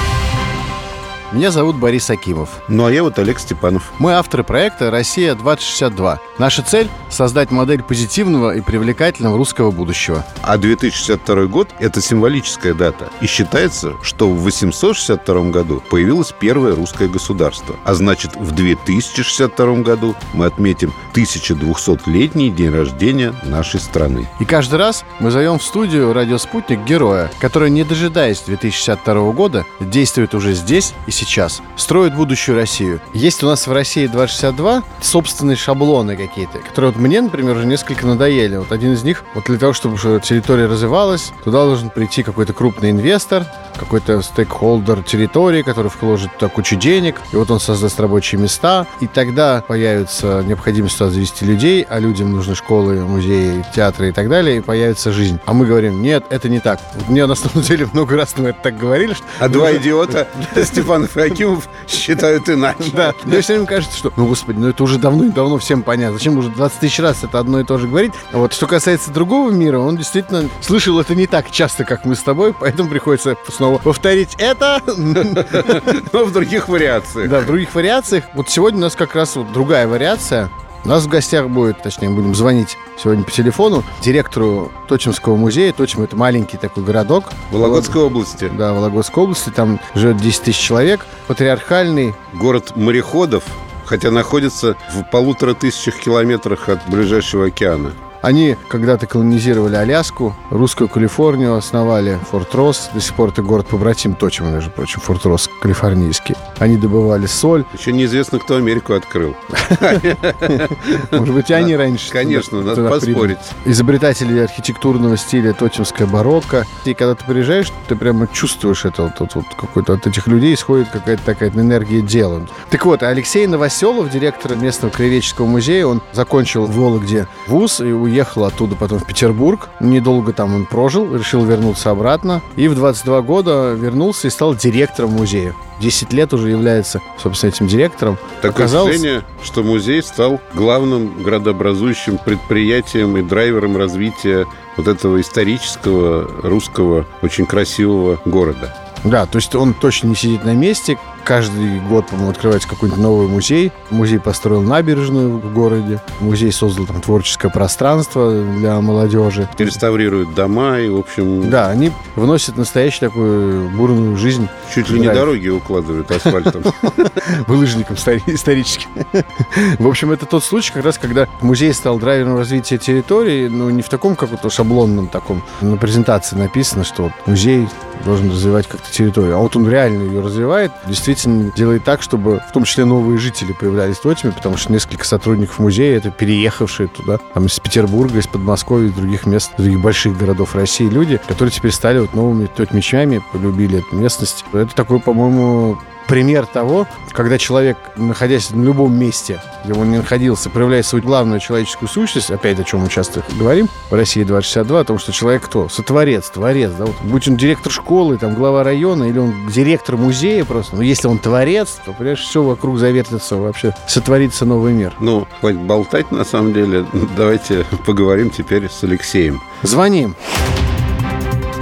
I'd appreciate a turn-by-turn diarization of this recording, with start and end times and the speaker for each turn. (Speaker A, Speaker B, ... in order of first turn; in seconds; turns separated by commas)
Speaker A: 1.3-2.6, Speaker B: 2.7-3.9, Speaker A: 4.0-10.3, Speaker B: 10.4-24.3, Speaker A: 24.4-60.9, Speaker B: 59.4-63.4, Speaker A: 62.8-76.0, Speaker B: 75.5-77.5, Speaker A: 77.2-92.2, Speaker B: 87.5-88.5, Speaker B: 92.3-98.0, Speaker A: 98.2-107.7, Speaker B: 107.7-113.5, Speaker A: 109.6-139.1, Speaker B: 138.4-148.7, Speaker A: 149.0-159.7, Speaker B: 159.6-161.7, Speaker A: 161.4-165.3, Speaker B: 164.7-167.2, Speaker A: 166.2-215.0, Speaker B: 215.0-219.5, Speaker A: 219.6-220.2